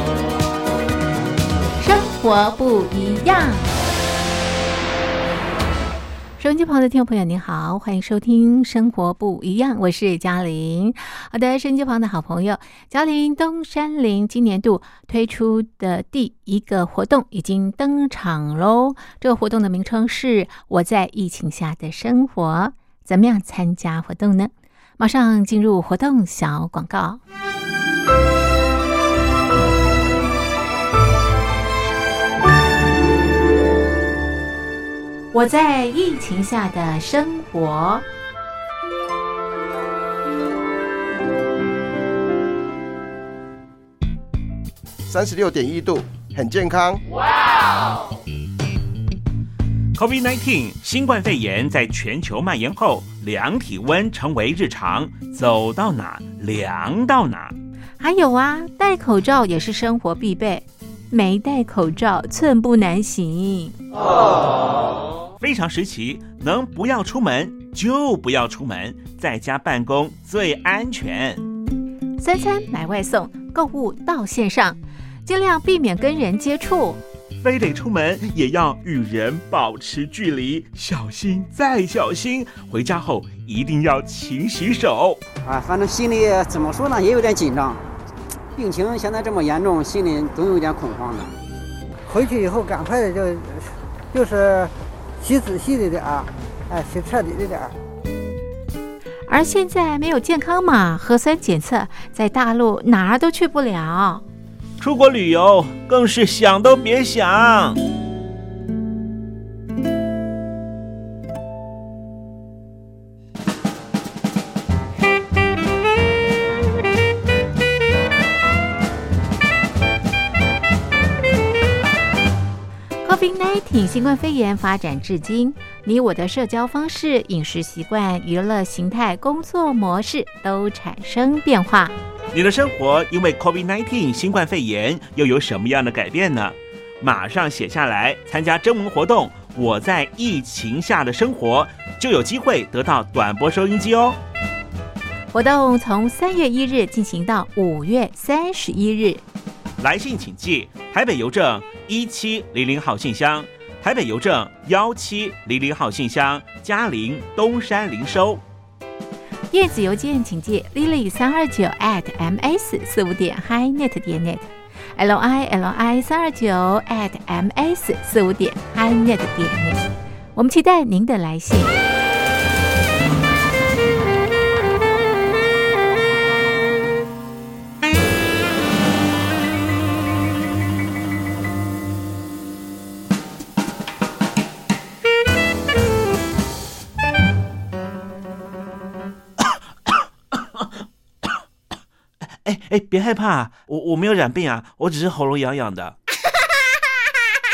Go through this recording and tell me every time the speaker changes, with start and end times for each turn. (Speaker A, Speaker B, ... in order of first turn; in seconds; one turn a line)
Speaker A: 1.8-3.7
Speaker A: 6.4-27.2
Speaker A: 35.3-38.1
Speaker B: 45.1-47.0
Speaker C: 50.0-57.5
Speaker A: 58.0-63.8
Speaker C: 65.4-71.4
Speaker A: 72.2-77.0
Speaker C: 77.4-85.2
Speaker D: 85.5-87.8
Speaker D: 88.5-91.3
Speaker E: 92.1-97.8
Speaker A: 99.3-104.2
Speaker C: 104.8-107.8
Speaker A: 123.0-131.9
Speaker C: 132.3-144.2
Speaker A: 145.3-149.2
Speaker C: 149.8-158.4
Speaker A: 159.5-169.8
Speaker A: 170.4-171.8
Speaker C: 192.4-196.0